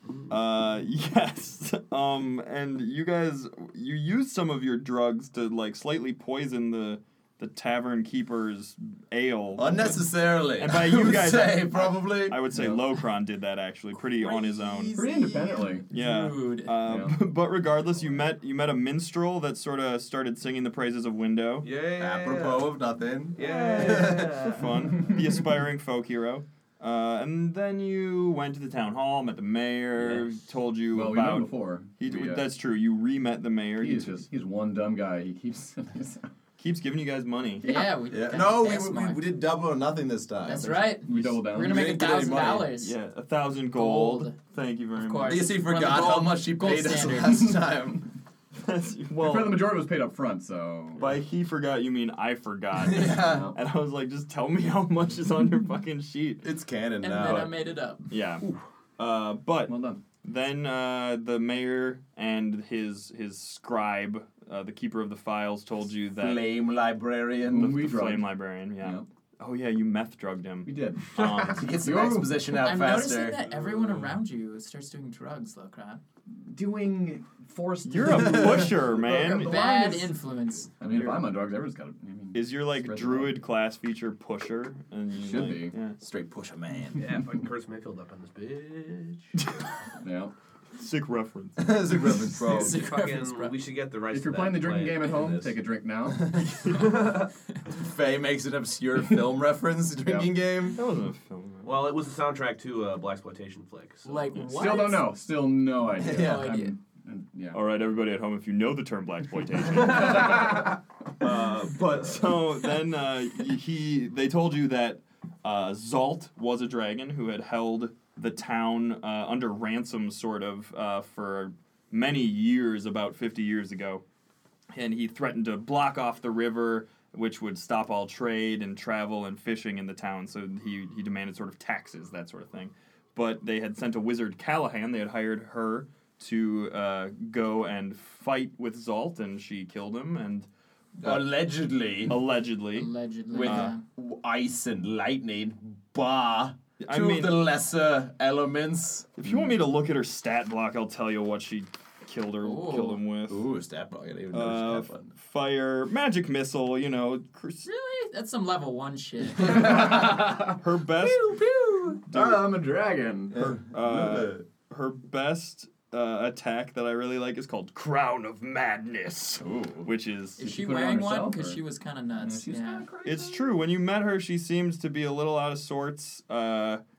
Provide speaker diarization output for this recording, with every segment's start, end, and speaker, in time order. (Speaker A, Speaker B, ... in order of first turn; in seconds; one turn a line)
Speaker A: 0.3-10.0
Speaker B: 9.6-12.8
Speaker A: 10.6-14.9
Speaker C: 14.2-16.8
Speaker D: 14.9-15.8
Speaker A: 15.9-21.7
Speaker D: 16.9-17.2
Speaker E: 21.6-22.7
Speaker B: 22.0-24.5
Speaker E: 23.4-25.1
Speaker A: 23.4-34.2
Speaker E: 30.0-30.3
Speaker D: 30.9-32.5
Speaker D: 33.8-36.3
Speaker A: 36.6-37.7
Speaker C: 37.6-39.2
Speaker D: 37.6-37.9
Speaker B: 38.1-40.9
Speaker C: 40.5-43.0
Speaker D: 40.5-42.0
Speaker B: 41.5-42.7
Speaker A: 42.8-45.5
Speaker C: 43.7-44.4
Speaker C: 45.0-47.6
Speaker B: 45.3-48.1
Speaker A: 48.6-49.8
Speaker D: 49.2-51.1
Speaker A: 51.0-56.5
Speaker B: 52.8-53.5
Speaker D: 53.1-53.6
Speaker B: 56.4-57.5
Speaker C: 57.0-58.0
Speaker A: 58.1-58.5
Speaker A: 59.0-66.4
Speaker D: 59.7-60.0
Speaker B: 66.2-67.8
Speaker D: 67.5-68.3
Speaker A: 67.6-71.7
Speaker D: 68.8-69.1
Speaker D: 70.7-72.4
Speaker B: 71.4-73.4
Speaker C: 72.5-76.0
Speaker E: 73.5-74.2
Speaker D: 76.3-80.1
Speaker A: 77.8-79.6
Speaker B: 78.2-78.6
Speaker C: 79.1-80.7
Speaker D: 80.8-83.4
Speaker A: 80.8-81.3
Speaker A: 82.3-86.0
Speaker D: 85.1-85.8
Speaker B: 86.0-87.1
Speaker E: 87.0-89.3
Speaker A: 89.4-89.7
Speaker D: 90.0-90.3
Speaker A: 90.8-91.8
Speaker B: 91.6-92.8
Speaker C: 92.2-93.6
Speaker E: 92.7-95.5
Speaker D: 94.1-96.3
Speaker B: 96.2-96.7
Speaker E: 96.7-97.3
Speaker B: 97.7-100.8
Speaker D: 100.0-100.3
Speaker A: 100.7-101.8
Speaker E: 101.6-104.7
Speaker C: 104.0-105.1
Speaker D: 104.6-107.6
Speaker B: 106.0-106.6
Speaker C: 106.1-106.7
Speaker A: 107.5-124.0
Speaker E: 109.7-110.7
Speaker D: 109.9-110.7
Speaker A: 124.7-140.5
Speaker B: 141.0-142.2
Speaker A: 141.0-141.3
Speaker A: 142.1-143.7
Speaker C: 142.8-143.8
Speaker B: 143.3-149.5
Speaker A: 146.8-147.5
Speaker A: 149.2-153.4
Speaker C: 152.4-153.0
Speaker B: 153.3-155.1
Speaker A: 154.3-157.7
Speaker C: 157.7-160.1
Speaker D: 159.4-160.6
Speaker A: 159.6-161.4
Speaker C: 161.4-161.9
Speaker D: 162.0-163.5
Speaker A: 162.0-162.5
Speaker B: 163.3-164.4
Speaker A: 163.4-170.4
Speaker B: 169.4-169.9
Speaker C: 170.4-172.9
Speaker D: 170.4-171.6
Speaker D: 172.2-173.5
Speaker A: 173.0-176.8